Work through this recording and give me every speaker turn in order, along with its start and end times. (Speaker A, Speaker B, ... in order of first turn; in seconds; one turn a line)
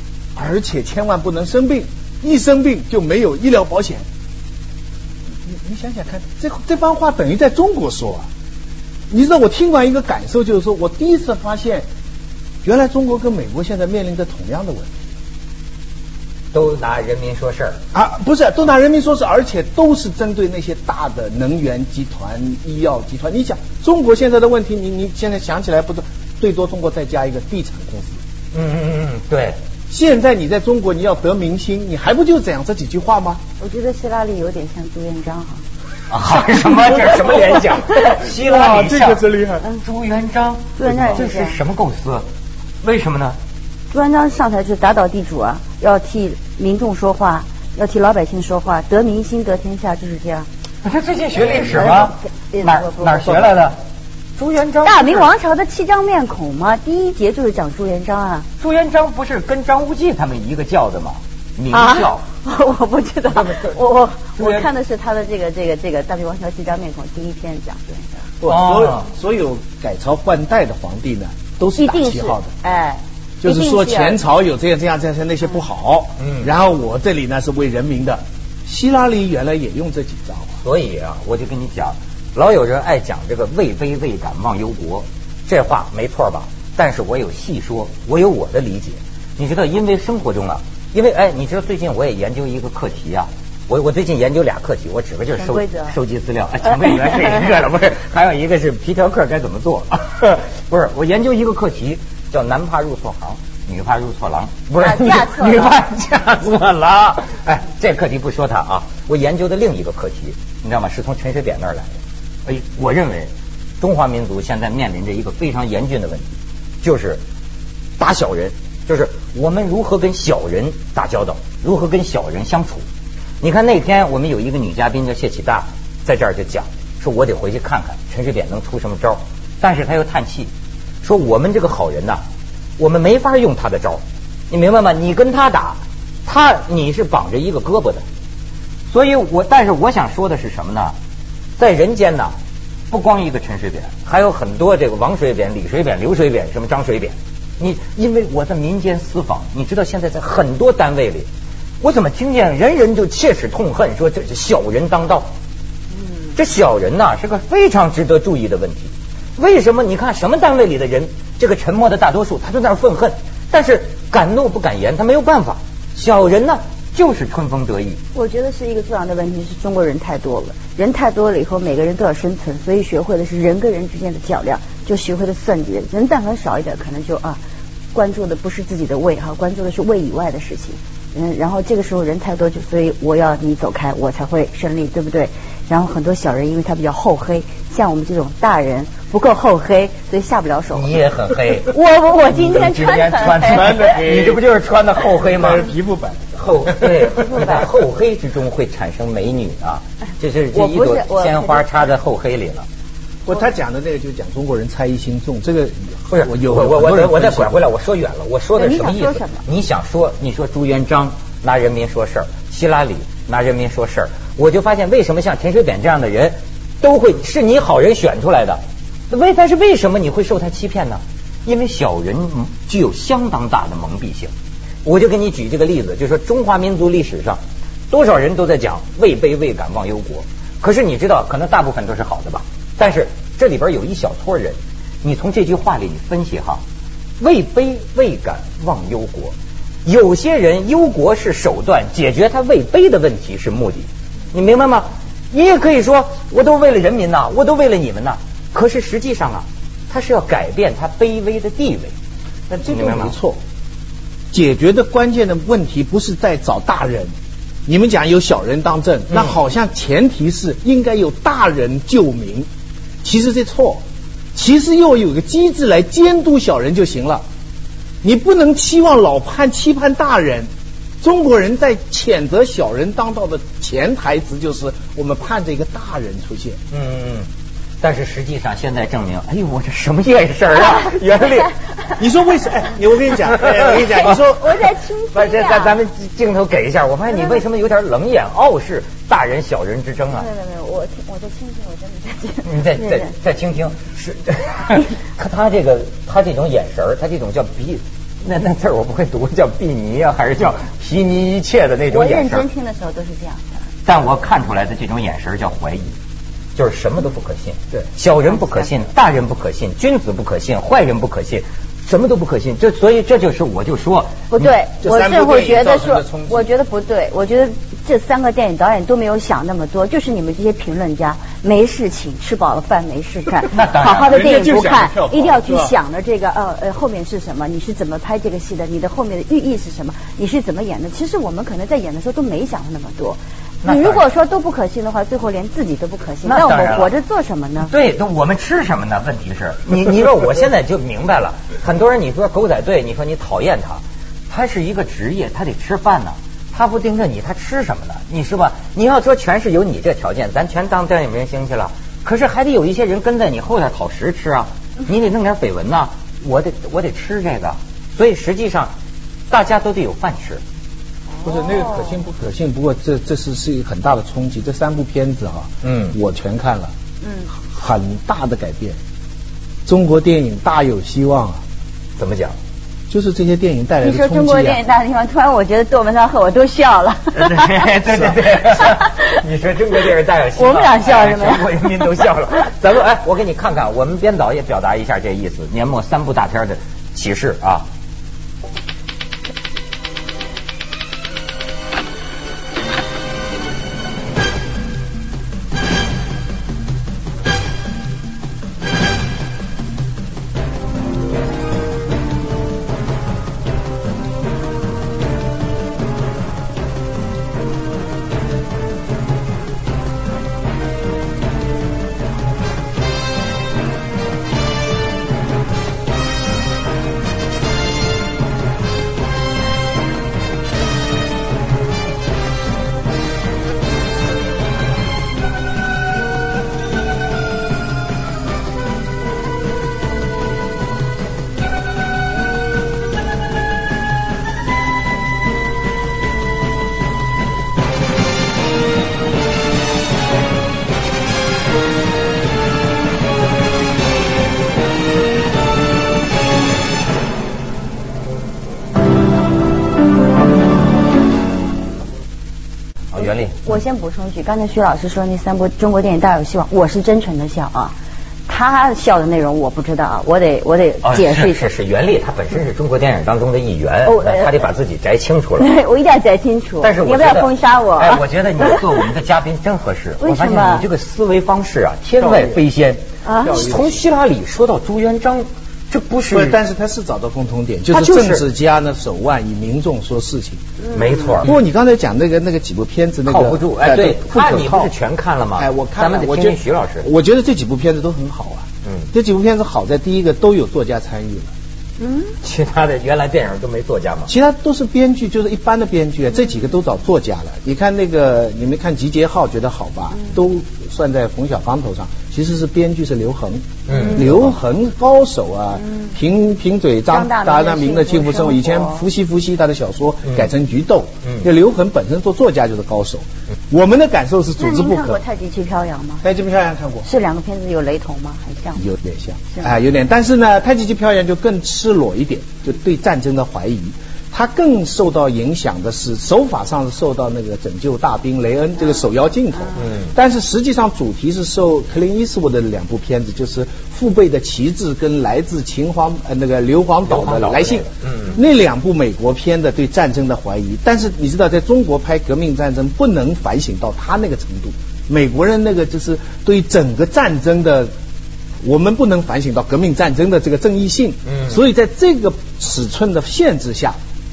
Speaker A: 0.3-4.1
Speaker A: 5.5-8.3
Speaker A: 9.1-11.9
Speaker A: 12.6-15.0
Speaker B: 16.5-17.8
Speaker A: 17.9-28.2
Speaker B: 28.5-29.6
Speaker A: 29.9-33.4
Speaker C: 33.6-35.6
Speaker B: 36.1-42.2
Speaker A: 38.4-39.6
Speaker C: 40.8-41.6
Speaker B: 42.8-43.4
Speaker C: 43.9-50.5
Speaker B: 50.8-53.8
Speaker C: 51.6-53.6
Speaker B: 54.4-55.3
Speaker C: 54.8-58.5
Speaker B: 58.6-62.2
Speaker C: 61.7-68.3
Speaker B: 63.3-63.8
Speaker B: 64.4-64.7
Speaker A: 68.4-72.5
Speaker B: 68.5-69.1
Speaker C: 71.8-74.2
Speaker A: 73.4-80.6
Speaker B: 76.2-76.5
Speaker B: 80.6-111.9
Speaker C: 95.3-96.0
Speaker C: 104.8-105.8
Speaker B: 112.5-113.3
Speaker B: 113.8-116.3
Speaker B: 116.8-117.2
Speaker B: 118.0-122.8
Speaker B: 123.4-130.5
Speaker B: 131.0-132.2
Speaker B: 132.8-138.0
Speaker B: 138.9-140.9
Speaker B: 141.6-142.3
Speaker B: 142.9-151.3
Speaker B: 151.8-155.3
Speaker B: 156.3-168.0
Speaker C: 168.2-177.4
Speaker C: 177.9-191.0
Speaker B: 190.7-195.7
Speaker C: 191.7-193.9
Speaker A: 193.5-194.4
Speaker A: 195.2-197.1
Speaker B: 196.4-202.7
Speaker C: 197.2-197.7
Speaker C: 200.5-201.6
Speaker A: 203.2-207.5
Speaker B: 206.1-224.3
Speaker C: 208.6-209.4
Speaker B: 224.8-236.6
Speaker B: 237.2-251.9
Speaker A: 252.5-253.4
Speaker B: 252.7-253.2
Speaker A: 254.3-257.1
Speaker A: 257.7-262.5
Speaker A: 263.0-263.8
Speaker A: 264.3-267.2
Speaker A: 268.0-270.5
Speaker A: 271.0-276.6
Speaker B: 276.7-277.3
Speaker B: 277.8-281.6
Speaker A: 282.0-284.6
Speaker C: 284.2-285.8
Speaker B: 285.1-290.3
Speaker C: 287.1-287.4
Speaker C: 290.1-293.1
Speaker B: 292.4-302.4
Speaker C: 301.9-303.6
Speaker B: 303.9-306.0
Speaker B: 306.6-314.5
Speaker C: 308.4-308.7
Speaker C: 314.3-337.7
Speaker A: 314.8-316.5
Speaker B: 323.5-324.2
Speaker A: 323.9-325.7
Speaker B: 333.6-334.0
Speaker B: 336.2-336.9
Speaker B: 337.6-358.7
Speaker B: 359.3-360.4
Speaker C: 361.2-361.9
Speaker A: 361.2-366.7
Speaker B: 365.6-366.0
Speaker C: 367.0-367.3
Speaker A: 367.3-368.8
Speaker A: 369.7-371.4
Speaker B: 372.0-372.4
Speaker A: 372.9-374.6
Speaker C: 373.8-377.7
Speaker B: 377.1-387.7
Speaker C: 378.5-379.2
Speaker C: 380.4-381.9
Speaker B: 452.9-453.4
Speaker C: 453.4-457.8
Speaker C: 458.3-461.5
Speaker B: 460.8-465.5
Speaker C: 463.9-464.5
Speaker C: 465.4-468.6
Speaker B: 466.6-476.4
Speaker C: 470.0-470.7
Speaker A: 472.0-472.3
Speaker C: 473.1-473.4
Speaker A: 473.3-473.8
Speaker A: 476.1-480.4
Speaker B: 477.7-478.2
Speaker C: 480.6-481.2
Speaker B: 480.7-481.3
Speaker A: 481.2-484.7
Speaker B: 483.1-486.9
Speaker A: 485.4-491.3
Speaker B: 488.6-488.9
Speaker C: 491.8-492.1
Speaker B: 492.2-494.1
Speaker A: 494.1-515.0
Speaker B: 503.7-504.4
Speaker C: 506.9-508.8
Speaker C: 514.4-516.0
Speaker A: 516.0-516.9
Speaker C: 516.9-518.6
Speaker A: 518.6-547.7
Speaker B: 529.6-529.9
Speaker B: 536.9-538.2
Speaker A: 548.4-553.8
Speaker B: 551.1-551.4